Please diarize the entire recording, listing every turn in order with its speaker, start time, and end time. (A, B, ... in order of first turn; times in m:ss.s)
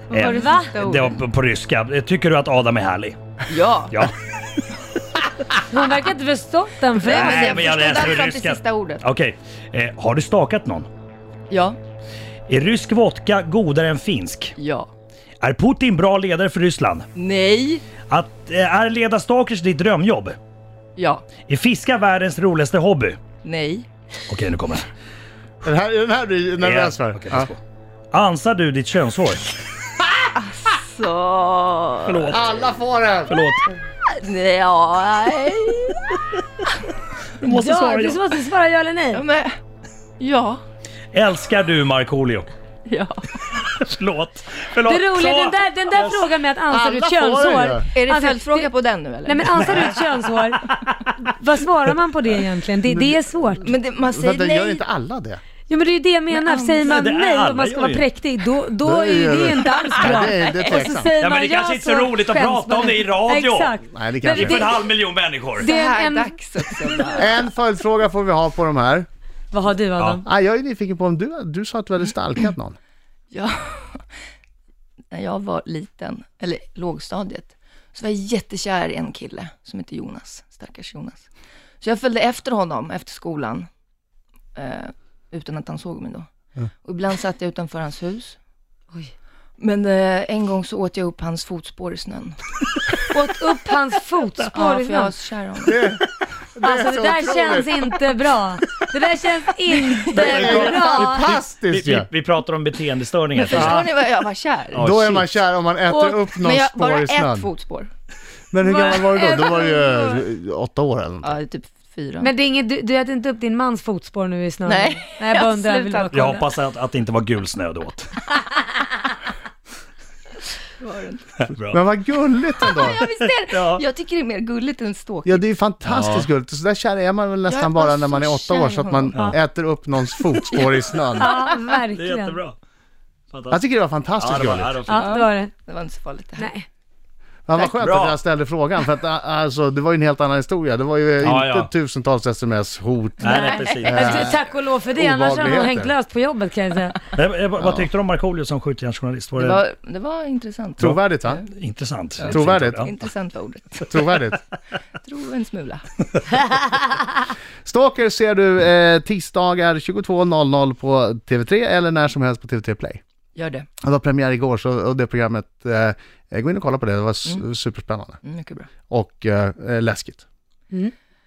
0:00.1-0:01.2 A
0:00.1-0:03.2 B
0:00.2-0:00.8 C
0:03.5-0:04.0 A
0:03.9-0:04.6 B
0:05.7-0:07.9 C
0:07.0-0:09.0 A
0:07.0-0:10.9 B
0:11.5-0:11.8 A
0:12.5-0:14.6 B
0:14.6-0:14.9 A
0:15.4-0:17.1 B
0:17.2-0:17.8 A
0:18.1-0:20.4 B
0:21.0-0:21.2 A
0:21.5-0:23.2 B
0:23.4-0:23.9 A
0:24.3-0:24.9 B
0:25.6-0:27.5 D
0:26.6-0:27.6 B
0:28.1-0:29.5 B
0:30.4-0:32.4 A
0:32.1-0:32.5 B
0:32.3-0:33.4 D
0:33.3-0:33.7 B
0:34.1-0:36.2 A
0:37.4-0:38.4 B
0:37.4-0:39.2 C
0:39.1-0:39.6 A
0:40.2-0:40.6 A
0:41.1-0:42.5 B
0:42.9-0:43.5 A
0:43.5-0:46.2 B
0:44.8-0:48.7 C
0:46.7-0:47.9 D
0:48.0-0:50.0 A
0:49.2-0:50.7 C
0:50.7-0:51.1 B
0:51.2-0:53.6 C
0:52.9-0:55.4 D
0:53.6-0:54.8 A
0:55.7-1:04.8 C
0:56.3-0:56.9 A
0:56.8-0:58.1 B
0:58.8-1:01.1 D
0:59.9-1:00.8 A
1:01.2-1:05.7 B
1:03.9-1:04.7 D
1:05.6-1:07.4 A
1:05.6-1:07.2 C
1:07.1-1:09.1 D
1:09.5-1:10.2 C
1:10.2-1:12.8 D
1:13.3-1:14.0 A
1:15.1-1:21.3 A
1:21.8-1:23.7 A
1:24.6-1:26.3 A
1:26.8-1:28.4 A
1:29.6-1:32.4 A
1:33.1-1:35.1 C
1:34.5-1:35.8 A
1:35.7-1:36.0 D
1:36.6-1:37.8 D
1:36.6-1:41.4 C
1:39.7-1:40.7 A
1:40.1-1:43.9 B
1:40.2-1:42.1 D
1:43.4-1:44.9 A
1:43.5-1:43.9 D
1:44.7-1:45.3 B
1:44.8-1:47.5 D
1:45.9-1:47.9 A
1:48.5-1:51.4 D
1:48.6-1:50.0 C
1:51.2-1:52.3 A
1:52.2-1:56.4 C
1:54.7-1:56.1 A
1:56.1-1:58.2 B
2:00.8-2:01.3 A
2:01.4-2:01.8 B
2:01.7-2:03.0 D
2:02.6-2:05.4 A
2:03.0-2:03.8 B
2:05.2-2:11.4 D
2:05.9-2:06.3 B
2:07.5-2:09.4 A
2:11.2-2:12.4 C
2:11.9-2:12.6 B
2:13.3-2:13.6 B
2:13.5-2:14.8 D
2:14.2-2:15.0 B
2:14.9-2:15.5 C
2:14.9-2:16.5 A
2:16.4-2:16.7 C
2:17.5-2:24.4 D
2:17.8-2:18.2 B
2:21.2-2:21.7 B
2:23.2-2:24.1 B
2:23.2-2:24.0 A
2:23.4-2:27.0 C
2:25.0-2:25.9 D
2:27.1-2:29.6 B
2:27.6-2:27.9 D
2:29.4-2:31.5 A
2:30.8-2:31.4 D
2:30.8-2:32.9 B
2:32.2-2:34.3 A
2:32.3-2:32.9 D
2:33.9-2:34.4 D
2:35.0-2:35.9 A
2:37.6-2:43.0 D
2:43.4-2:43.7 A
2:43.8-2:48.2 D
2:48.2-2:48.7 A
2:48.9-2:50.2 D